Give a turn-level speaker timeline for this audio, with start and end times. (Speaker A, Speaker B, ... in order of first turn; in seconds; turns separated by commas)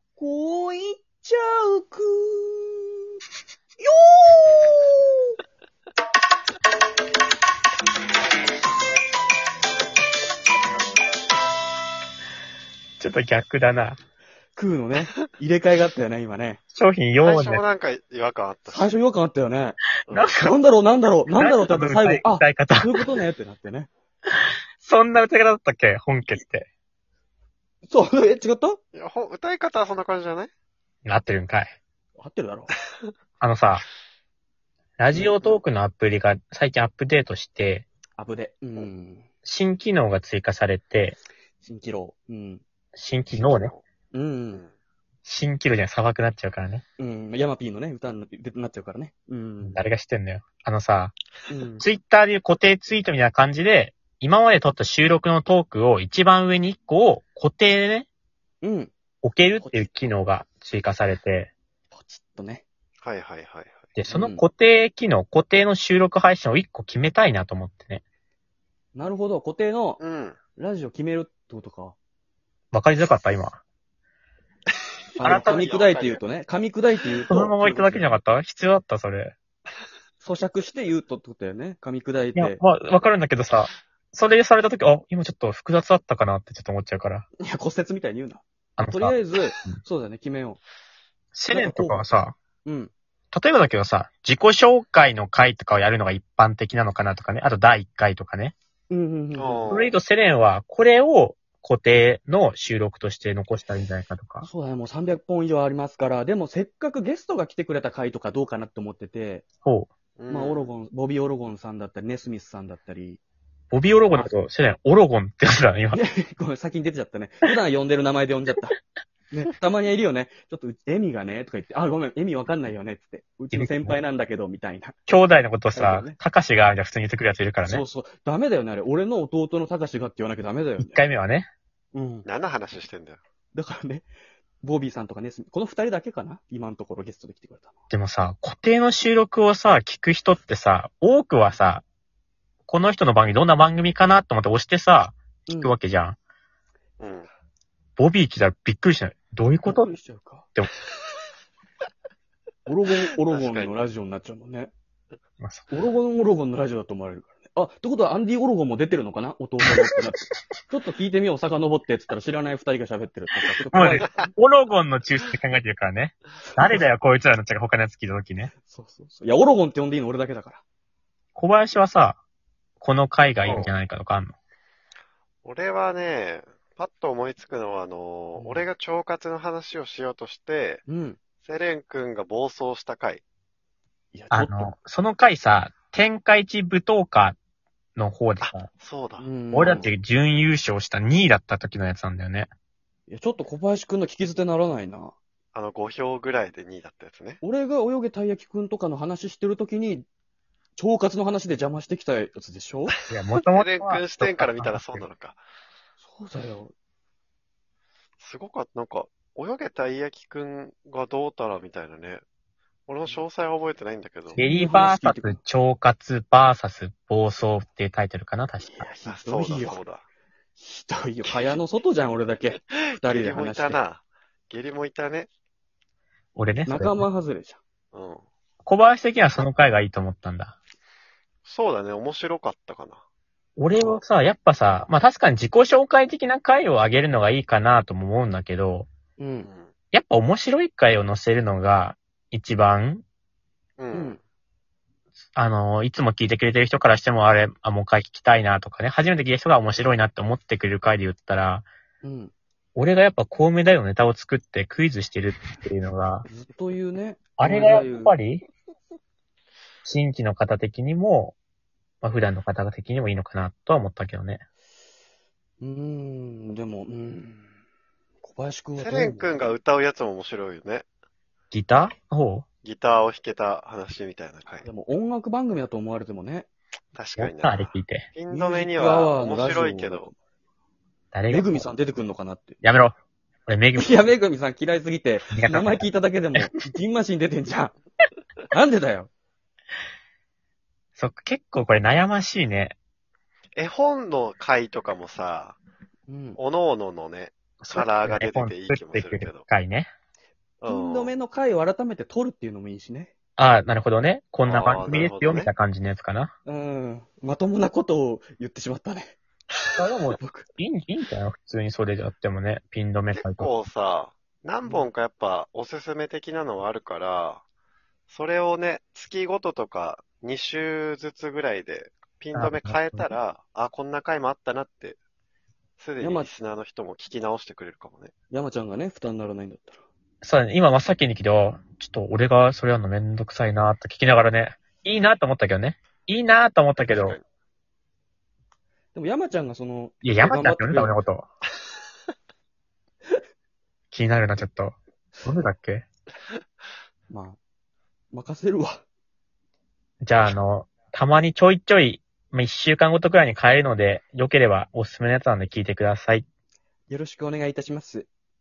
Speaker A: 0.2-2.9, Speaker A: 3.8-5.3, Speaker B: 13.0-14.0, Speaker A: 14.6-16.6, Speaker B: 16.7-17.6, Speaker C: 17.2-18.9, Speaker A: 18.7-23.9, Speaker C: 20.1-20.3, Speaker B: 20.1-20.6, Speaker B: 21.3-22.9, Speaker B: 24.8-26.7, Speaker A: 27.9-28.8, Speaker C: 28.9-30.5, Speaker B: 31.1-31.8, Speaker A: 32.2-32.7, Speaker B: 33.4-33.9, Speaker B: 35.0-37.9, Speaker A: 38.2-39.3, Speaker B: 39.5-41.2, Speaker A: 41.6-42.6, Speaker B: 42.9-43.7, Speaker C: 43.3-43.9, Speaker A: 44.1-44.6, Speaker B: 45.2-46.8, Speaker A: 47.0-49.8, Speaker B: 49.6-51.2, Speaker A: 51.5-51.9, Speaker B: 51.8-58.1, Speaker A: 58.6-58.9, Speaker B: 59.2-61.5, Speaker A: 59.6-59.9, Speaker A: 61.9-62.6, Speaker C: 63.0-63.9, Speaker B: 64.0-68.0, Speaker A: 64.1-64.5, Speaker A: 69.0-70.0, Speaker C: 70.0-70.4, Speaker A: 70.6-72.0, Speaker B: 72.7-73.6, Speaker C: 75.2-76.2, Speaker A: 75.2-78.1, Speaker B: 75.2-75.7, Speaker B: 77.3-79.3, Speaker A: 80.2-82.6, Speaker B: 82.4-87.3, Speaker A: 87.4-90.6, Speaker B: 88.8-89.8, Speaker B: 91.3-92.3, Speaker A: 91.5-92.0, Speaker A: 92.7-92.9, Speaker B: 93.3-98.5, Speaker A: 98.9-99.8, Speaker C: 99.3-100.0, Speaker B: 99.7-104.5, Speaker A: 104.4-109.5, Speaker B: 109.6-109.9, Speaker C: 110.2-110.7, Speaker A: 110.3-113.2, Speaker B: 113.7-116.0, Speaker A: 115.9-118.8, Speaker A: 119.3-125.0, Speaker B: 123.5-124.0, Speaker B: 125.1-127.8, Speaker A: 125.7-126.2, Speaker A: 127.7-131.0, Speaker B: 130.8-131.5, Speaker A: 131.9-132.3, Speaker C: 132.2-133.2, Speaker A: 133.5-134.1, Speaker A: 134.6-137.8, Speaker B: 137.9-141.8, Speaker B: 142.7-146.2, Speaker A: 145.5-145.8, Speaker C: 147.0-147.3, Speaker B: 148.0-149.9, Speaker A: 149.7-150.5, Speaker A: 152.7-154.7, Speaker C: 153.3-153.8, Speaker B: 155.4-155.7, Speaker A: 155.7-164.3, Speaker B: 163.7-168.5, Speaker C: 164.0-164.3, Speaker A: 166.5-166.8, Speaker A: 168.6-170.6, Speaker B: 171.3-172.2, Speaker B: 172.8-174.4, Speaker C: 173.4-173.7, Speaker C: 175.4-180.8, Speaker A: 178.4-178.7, Speaker A: 180.9-181.2, Speaker C: 181.4-183.2, Speaker A: 184.1-184.7, Speaker B: 184.3-187.4, Speaker B: 188.0-188.7, Speaker C: 188.4-189.3, Speaker A: 189.2-189.9, Speaker B: 189.5-192.5, Speaker A: 193.1-195.2, Speaker C: 195.5-197.4, Speaker A: 197.4-200.1, Speaker A: 200.8-202.9, Speaker B: 203.1-205.1, Speaker C: 203.5-205.4, Speaker A: 206.0-206.7, Speaker C: 208.2-212.2, Speaker C: 212.9-214.4, Speaker A: 214.3-215.4, Speaker B: 214.4-218.9, Speaker A: 218.7-219.8, Speaker C: 219.1-220.0, Speaker A: 220.6-223.8, Speaker C: 221.3-221.6, Speaker C: 222.6-225.3, Speaker B: 226.3-227.1, Speaker A: 226.7-227.6, Speaker C: 227.9-228.2, Speaker B: 228.7-230.6, Speaker C: 231.4-233.0, Speaker B: 233.6-238.9, Speaker A: 239.2-239.5, Speaker C: 239.5-239.7, Speaker B: 239.9-243.1, Speaker C: 243.8-244.2, Speaker A: 243.9-244.2, Speaker B: 245.4-251.7, Speaker A: 252.0-252.3, Speaker B: 252.8-256.3, Speaker A: 256.3-258.2, Speaker B: 257.4-258.4, Speaker B: 259.9-261.4, Speaker B: 262.0-264.4, Speaker A: 265.6-267.5, Speaker A: 268.2-269.6, Speaker C: 268.8-270.9, Speaker B: 271.5-272.4, Speaker C: 272.6-274.7, Speaker A: 274.6-276.5, Speaker C: 276.9-280.1, Speaker B: 277.2-278.1, Speaker A: 278.3-280.1, Speaker B: 281.1-281.6, Speaker A: 281.3-282.6, Speaker B: 282.6-284.1, Speaker A: 283.8-287.8, Speaker B: 285.3-286.7, Speaker A: 288.5-289.1, Speaker B: 291.0-292.8, Speaker C: 293.6-295.6, Speaker A: 296.1-296.4, Speaker C: 296.4-299.5, Speaker B: 297.6-299.9, Speaker C: 300.6-301.1, Speaker A: 300.6-303.1, Speaker B: 303.4-306.3, Speaker C: 304.4-305.5, Speaker A: 306.4-309.2, Speaker B: 309.8-313.5, Speaker A: 310.2-310.5, Speaker C: 313.3-317.4, Speaker C: 318.1-325.0, Speaker B: 322.4-323.1, Speaker C: 325.8-328.1, Speaker A: 326.0-326.3, Speaker A: 328.3-329.8, Speaker B: 330.2-337.2, Speaker C: 336.9-337.2, Speaker A: 338.9-340.9, Speaker B: 340.0-341.3, Speaker B: 343.9-345.9, Speaker A: 347.1-347.4, Speaker A: 348.1-348.8, Speaker B: 350.0-356.3, Speaker A: 356.9-358.1